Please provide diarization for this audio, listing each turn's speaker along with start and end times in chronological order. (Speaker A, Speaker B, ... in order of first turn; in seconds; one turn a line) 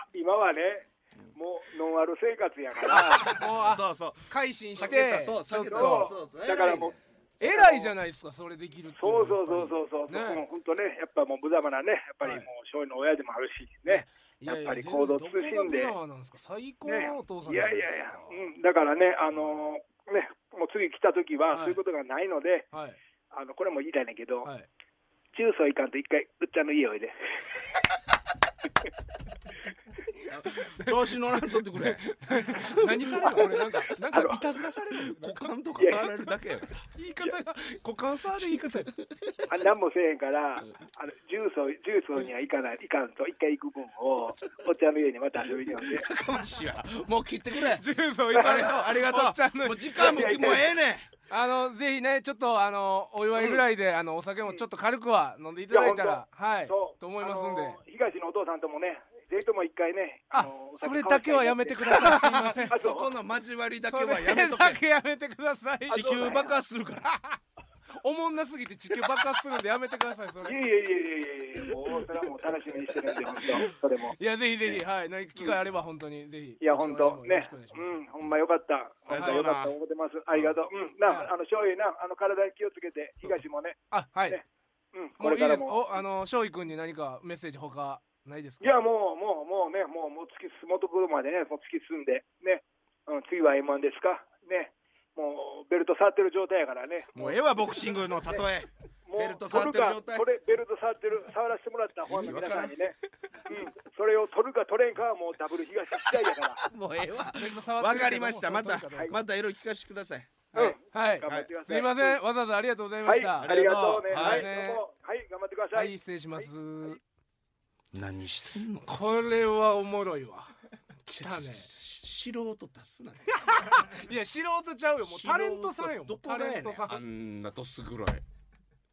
Speaker A: 0.1-3.4
Speaker B: 2.9-6.1
Speaker C: 3.4-7.0
Speaker A: 5.7-7.9
Speaker B: 7.4-10.4
Speaker A: 9.0-15.9
Speaker B: 13.9-18.5
Speaker A: 16.9-22.7
Speaker B: 19.3-19.6
Speaker B: 21.5-21.8
Speaker B: 22.7-23.0
Speaker A: 23.3-24.5
Speaker A: 25.3-27.6
Speaker B: 30.1-35.4
Speaker C: 30.3-33.5
Speaker A: 34.1-34.4
Speaker C: 34.9-36.8
Speaker A: 35.8-36.1
Speaker B: 37.0-38.9
Speaker C: 38.4-39.6
Speaker A: 39.5-46.0
Speaker C: 45.6-51.1
Speaker B: 47.7-50.5
Speaker A: 48.4-48.8
Speaker A: 49.9-50.6
Speaker B: 51.3-57.8
Speaker A: 53.4-53.6
Speaker A: 55.7-62.1
Speaker B: 60.3-62.8
Speaker C: 61.9-64.8
Speaker A: 62.7-63.1
Speaker B: 63.8-66.4
Speaker A: 65.9-66.5
Speaker C: 65.9-67.1
Speaker B: 67.0-67.4
Speaker B: 68.0-70.6
Speaker A: 70.4-74.2
Speaker B: 74.2-78.1
Speaker A: 76.6-84.4
Speaker C: 79.1-79.7
Speaker B: 79.1-79.4
Speaker B: 83.9-84.4
Speaker A: 84.9-86.0
Speaker B: 85.2-88.8
Speaker A: 88.6-97.4
Speaker C: 97.1-100.3
Speaker A: 99.0-103.0
Speaker C: 102.1-102.7
Speaker A: 103.5-106.6
Speaker C: 106.6-111.5
Speaker B: 107.3-109.2
Speaker B: 110.5-114.8
Speaker A: 110.5-112.2
Speaker A: 113.0-116.9
Speaker C: 113.4-114.5
Speaker B: 115.7-117.0
Speaker C: 117.9-119.0
Speaker B: 118.9-120.5
Speaker B: 121.1-121.7
Speaker C: 121.1-123.4
Speaker B: 123.3-127.0
Speaker C: 125.0-128.2